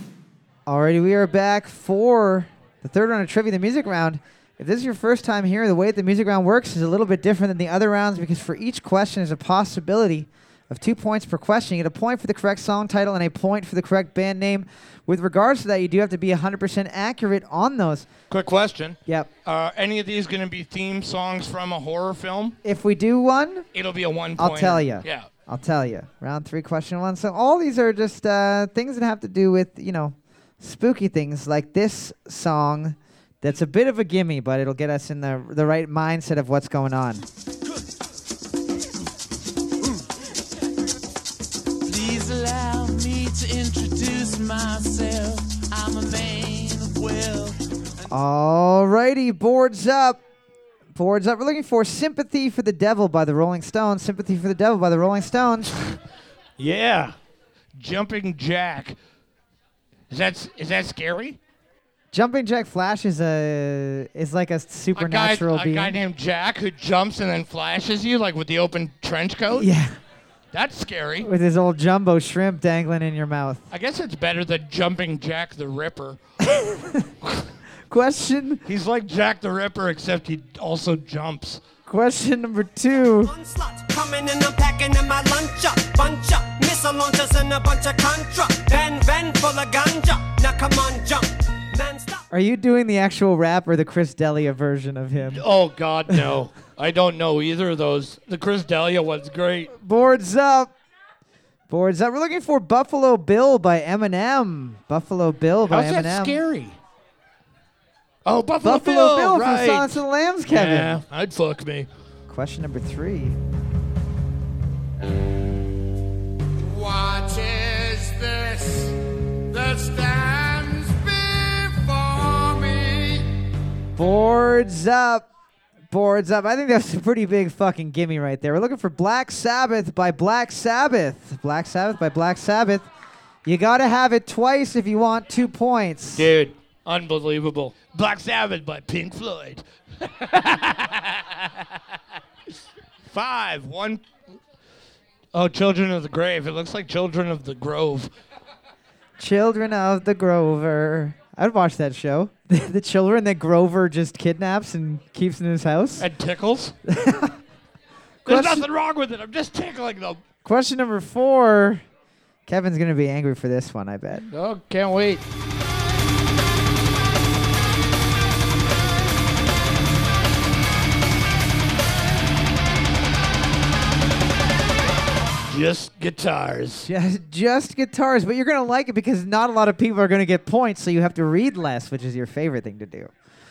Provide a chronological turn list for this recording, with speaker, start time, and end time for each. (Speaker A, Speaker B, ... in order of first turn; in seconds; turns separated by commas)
Speaker A: 0.7-18.1, Speaker B: 18.3-22.6, Speaker A: 22.6-23.6, Speaker B: 23.7-25.3, Speaker A: 24.4-37.2, Speaker C: 41.9-47.5, Speaker D: 42.7-43.6, Speaker D: 47.1-47.5, Speaker A: 48.1-50.2, Speaker A: 50.9-55.8, Speaker B: 56.6-57.1, Speaker B: 57.7-59.0, Speaker B: 60.1-61.4, Speaker A: 62.1-66.0, Speaker B: 64.9-69.7, Speaker A: 69.5-69.9, Speaker B: 70.5-71.3, Speaker A: 71.2-73.6, Speaker B: 73.7-76.2, Speaker A: 76.4-77.1, Speaker A: 77.9-78.6, Speaker B: 78.7-81.6, Speaker A: 81.9-83.3, Speaker E: 83.2-92.2, Speaker A: 92.3-95.4, Speaker B: 95.2-99.7, Speaker A: 99.7-100.7, Speaker A: 101.7-106.4, Speaker B: 105.7-106.8, Speaker B: 108.2-111.9, Speaker A: 108.6-111.0, Speaker A: 112.3-113.4, Speaker D: 116.8-118.8, Speaker D: 119.5-123.1, Speaker A: 124.0-125.3, Speaker A: 125.9-132.9, Speaker A: 133.4-136.3, Speaker B: 136.1-141.8, Speaker B: 143.1-144.0, Speaker B: 145.3-148.1, Speaker A: 149.2-156.1, Speaker B: 156.0-156.7, Speaker A: 156.9-157.4, Speaker A: 158.2-158.7, Speaker B: 158.2-160.2, Speaker A: 160.4-161.8, Speaker A: 162.5-164.3, Speaker B: 164.3-165.2, Speaker B: 175.5-176.9, Speaker A: 176.8-183.1